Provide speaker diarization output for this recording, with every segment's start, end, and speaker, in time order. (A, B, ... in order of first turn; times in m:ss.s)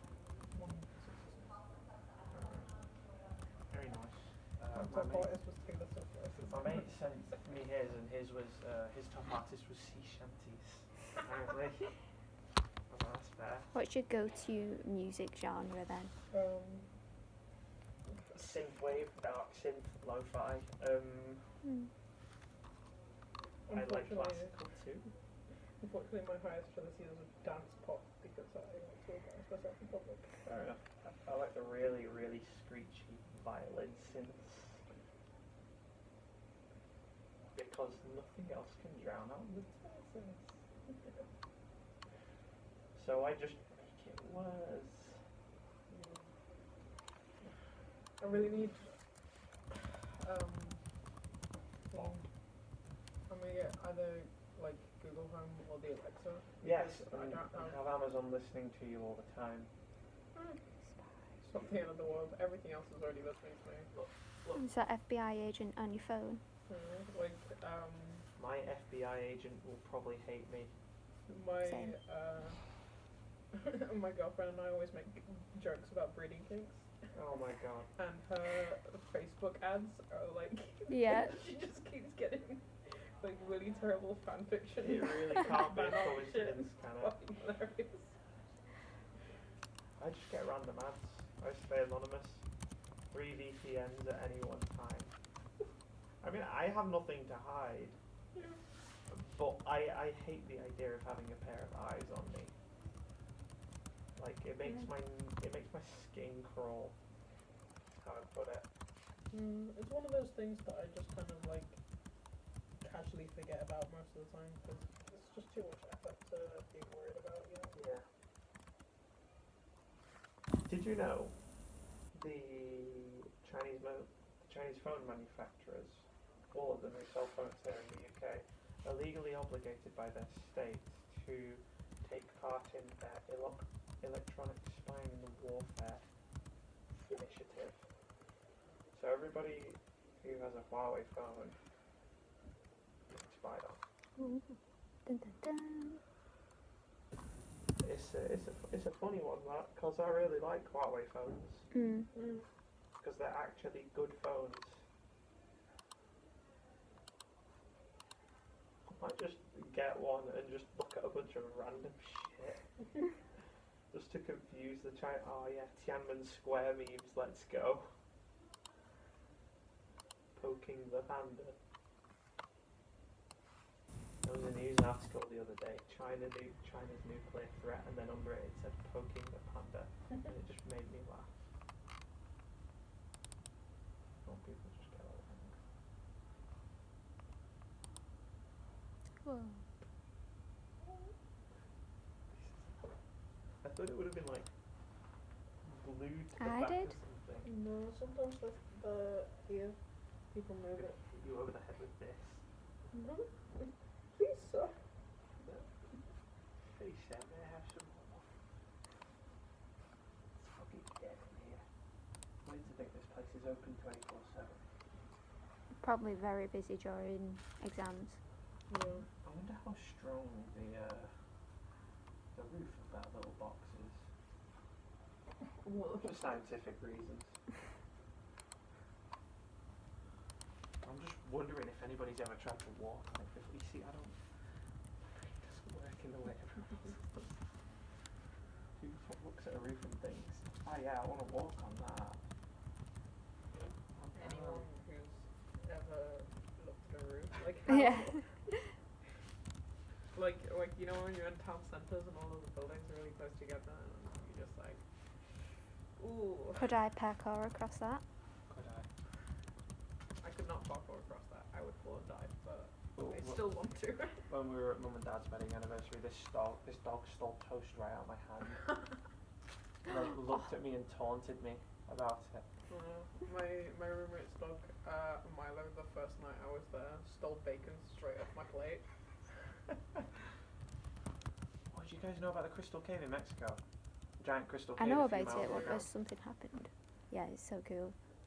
0:00.5-0:01.6 A
0:02.3-0:02.8 B
0:03.7-0:05.3 B
0:04.7-0:06.9 A
0:06.4-0:11.9 B
0:12.9-0:13.7 B
0:13.7-0:16.1 C
0:16.3-0:16.9 A
0:18.3-0:21.5 B
0:21.6-0:21.9 C
0:23.6-0:24.5 A
0:23.7-0:25.1 B
0:25.8-0:30.3 A
0:30.4-0:34.8 B
0:37.5-0:40.4 B
0:42.9-0:45.2 B
0:45.9-0:46.3 A
0:48.2-0:49.0 A
0:49.7-0:50.8 A
0:51.9-0:52.3 A
0:53.3-0:57.8 A
0:56.6-0:59.7 B
1:00.3-1:00.6 A
1:01.4-1:03.9 A
1:03.9-1:04.6 B
1:04.6-1:06.4 C
1:06.7-1:08.3 A
1:08.4-1:10.7 B
1:11.3-1:12.6 A
1:11.6-1:12.0 C
1:13.5-1:17.0 A
1:17.1-1:17.9 B
1:18.0-1:28.2 A
1:20.9-1:21.5 C
1:24.8-1:27.2 B
1:30.0-1:32.4 B
1:33.1-1:35.1 B
1:36.2-1:38.0 B
1:38.3-1:38.6 A
1:39.1-1:42.5 B
1:44.2-1:47.0 B
1:48.0-1:48.7 B
1:49.3-1:51.8 A
1:52.8-1:57.8 A
1:57.7-1:58.0 B
2:00.6-2:01.4 B
2:02.1-2:16.0 B
2:17.1-2:17.8 B
2:18.9-2:21.6 B
2:23.1-2:23.8 B
2:24.2-2:24.5 C
2:25.0-2:26.0 C
2:27.8-2:31.7 B
2:31.7-2:32.1 C
2:32.1-2:32.4 A
2:33.0-2:34.8 B
2:38.9-2:42.6 B
2:43.9-2:47.9 B
2:50.3-2:51.6 B
2:54.2-3:01.3 B
3:04.2-3:05.6 B
3:09.2-3:09.6 C
3:12.3-3:12.7 B
3:13.6-3:14.5 B
3:15.6-3:17.5 B
3:16.4-3:16.9 C
3:17.4-3:19.8 A
3:20.3-3:21.0 A
3:20.8-3:22.4 B
3:22.9-3:24.7 A
3:26.7-3:28.3 B
3:30.4-3:31.6 B
3:32.4-3:34.6 B
3:35.8-3:38.2 C
3:38.7-3:39.1 A
3:39.2-3:41.1 B
3:42.3-3:44.0 B
3:45.6-3:46.4 A
3:46.0-3:47.4 B
3:50.8-3:54.2 B
3:55.0-3:57.3 B
3:58.8-4:02.2 B
4:04.0-4:04.6 B
4:04.1-4:08.3 A
4:07.7-4:08.6 C
4:10.1-4:14.8 A
4:16.0-4:16.7 A
4:16.6-4:18.0 C
4:18.5-4:18.9 B
4:20.2-4:24.2 A
4:23.0-4:23.5 B
4:24.3-4:28.7 B
4:29.8-4:32.4 B
4:32.7-4:38.8 A
4:41.7-4:43.6 B
4:44.2-4:45.9 B
4:44.8-4:47.9 C
4:45.4-4:45.8 A